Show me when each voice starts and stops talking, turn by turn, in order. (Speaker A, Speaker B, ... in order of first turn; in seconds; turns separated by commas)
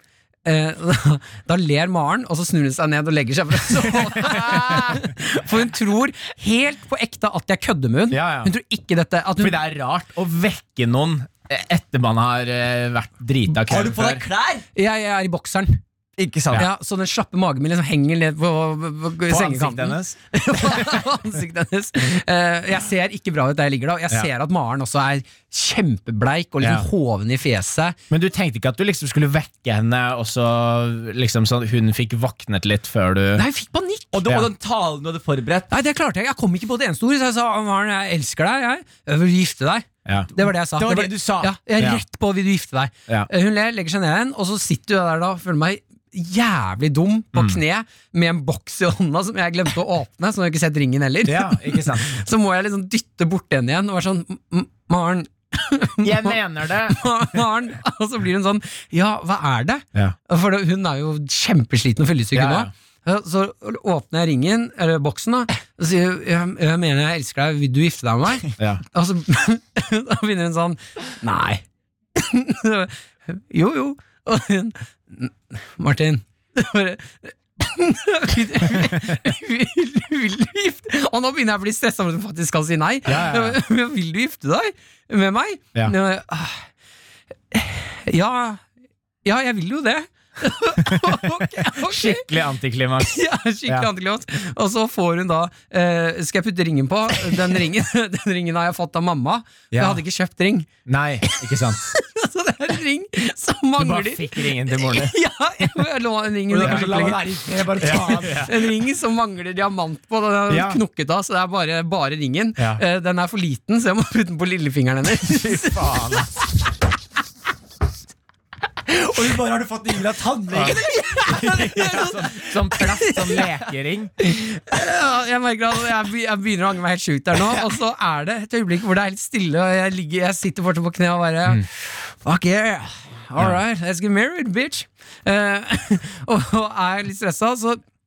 Speaker A: 0.4-9.6, Speaker B: 3.9-5.0, Speaker B: 8.1-8.5, Speaker B: 9.4-14.2, Speaker C: 13.7-14.6, Speaker A: 14.7-15.8, Speaker C: 16.2-16.6, Speaker A: 16.5-28.0, Speaker B: 19.3-21.1, Speaker B: 26.6-26.9, Speaker B: 28.1-33.4, Speaker A: 33.4-34.1, Speaker C: 34.1-35.7, Speaker A: 35.7-71.6, Speaker C: 40.8-41.5, Speaker B: 51.3-52.1, Speaker B: 56.0-57.5, Speaker B: 62.3-62.7, Speaker A: 72.2-86.7, Speaker B: 83.1-83.6, Speaker A: 87.5-88.6, Speaker A: 89.2-92.3, Speaker B: 90.8-91.2, Speaker B: 91.8-93.9, Speaker A: 93.0-100.7, Speaker B: 99.7-100.0, Speaker B: 100.8-101.8, Speaker A: 101.3-116.2, Speaker B: 103.8-105.1, Speaker C: 106.5-108.5, Speaker B: 106.6-106.9, Speaker B: 107.8-108.5, Speaker B: 110.5-110.8, Speaker B: 115.3-116.3, Speaker C: 118.9-122.1, Speaker A: 120.7-123.4, Speaker B: 121.6-124.1, Speaker A: 124.2-137.8